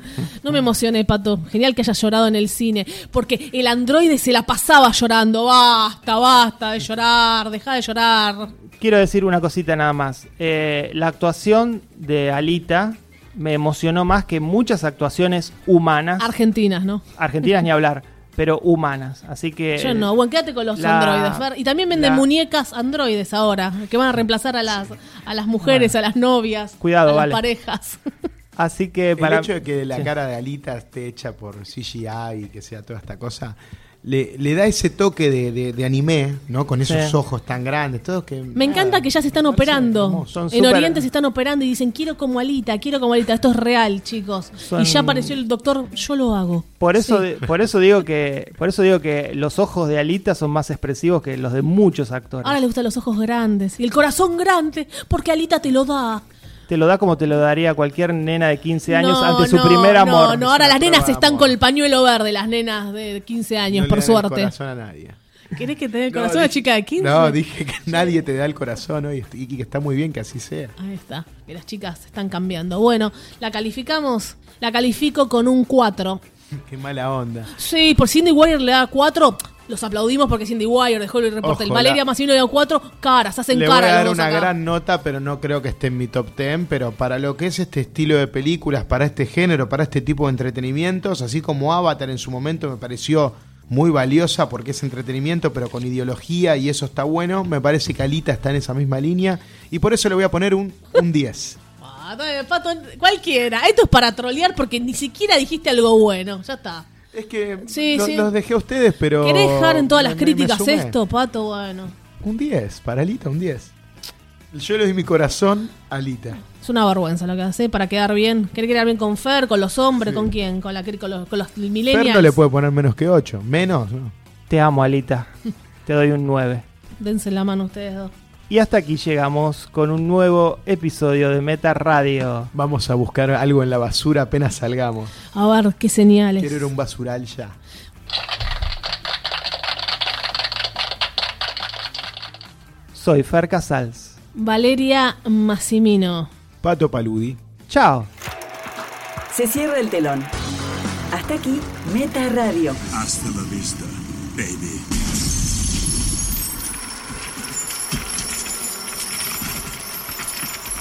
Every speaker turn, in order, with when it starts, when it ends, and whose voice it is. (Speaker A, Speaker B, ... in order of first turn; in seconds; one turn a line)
Speaker A: 0.2-8.5
Speaker B: 8.8-16.3
Speaker A: 16.2-17.1
Speaker B: 17.2-20.1
Speaker A: 19.8-28.0
Speaker B: 20.8-22.2
Speaker B: 25.6-25.9
Speaker B: 26.8-27.4
Speaker B: 28.6-30.1
Speaker C: 29.2-40.4
Speaker B: 36.9-37.2
Speaker A: 38.5-47.3
Speaker B: 40.3-41.0
Speaker B: 44.6-45.4
Speaker B: 46.8-52.6
Speaker A: 52.4-56.2
Speaker B: 56.7-60.5
Speaker A: 58.9-64.5
Speaker C: 60.3-61.6
Speaker C: 63.7-65.2
Speaker A: 65.5-67.4
Speaker C: 66.1-70.8
Speaker A: 70.8-76.2
Speaker C: 76.6-77.5
Speaker A: 77.5-84.5
Speaker C: 81.4-82.0
Speaker C: 83.5-101.6
Speaker A: 101.8-106.9
Speaker C: 107.1-111.0
Speaker A: 107.7-108.3
Speaker A: 109.2-111.9
Speaker C: 112.2-113.7
Speaker C: 114.5-116.4
Speaker A: 116.6-122.4
Speaker C: 120.1-120.3
Speaker C: 121.9-124.2
Speaker B: 124.5-125.3
Speaker B: 125.9-126.6
Speaker A: 127.0-128.1
Speaker B: 128.5-132.5
Speaker C: 132.5-135.1
Speaker A: 135.3-136.7
Speaker C: 136.4-137.6
Speaker B: 142.9-144.2
Speaker A: 144.3-146.3
Speaker C: 146.6-147.4
Speaker B: 147.7-148.1
Speaker D: 149.3-150.3
Speaker D: 151.1-152.8
Speaker E: 152.9-154.9